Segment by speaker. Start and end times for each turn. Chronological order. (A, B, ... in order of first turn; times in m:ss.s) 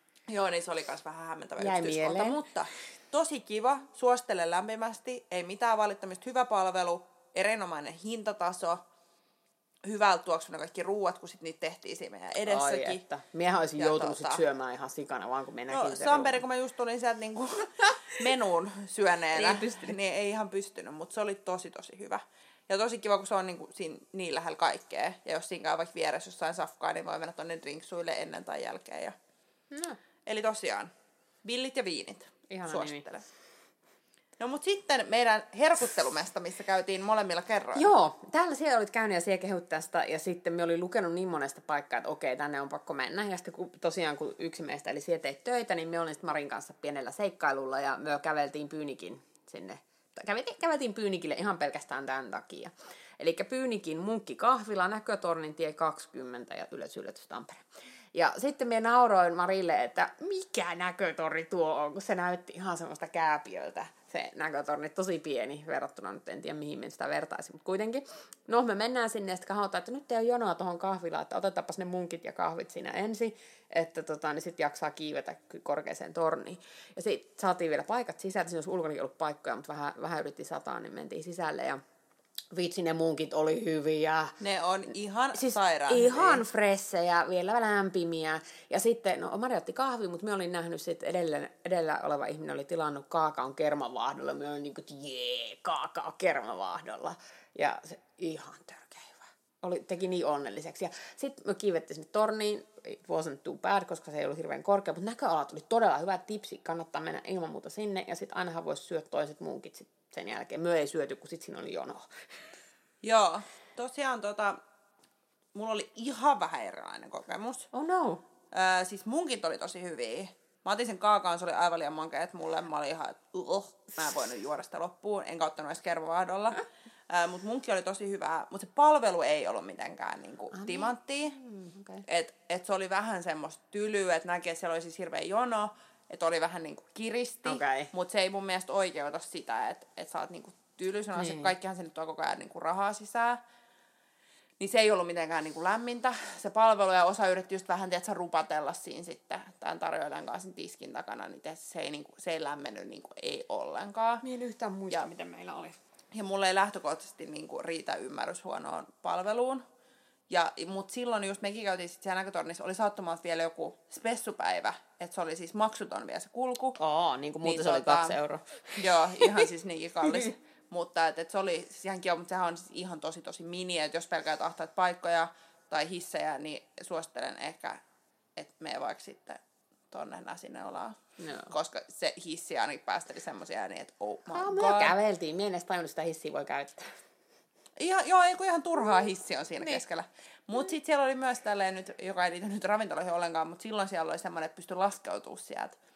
0:00.3-0:08.8 A
0:01.6-0:02.4 B
0:09.8-0:13.0 A
0:12.5-0:16.4 B
0:13.8-0:14.4 A
0:15.7-0:29.2 A
0:19.3-0:19.9 B
0:29.7-0:30.0 B
0:30.3-0:30.9 A
0:31.4-0:33.2 A
0:32.5-0:33.0 B
0:34.4-0:37.9 A
0:37.8-1:21.8 B
1:22.5-1:24.4 B
1:24.4-1:26.4 A
1:25.4-1:52.1 B
1:53.0-1:54.6 A
1:55.6-1:57.7 A
1:57.7-1:58.2 B
1:58.5-2:11.4 A
2:10.5-2:12.0 B
2:12.1-2:23.4 A
2:17.4-2:17.9 B
2:21.2-2:21.5 B
2:24.6-2:34.2 A
2:34.2-2:35.8 B
2:36.1-2:39.6 A
2:40.3-2:46.8 A
2:46.8-2:49.4 B
2:47.4-2:48.2 A
2:48.8-2:57.8 A
2:58.4-3:01.0 A
3:01.2-3:01.5 B
3:01.5-3:05.0 A
3:04.3-3:06.9 B
3:07.8-3:15.8 A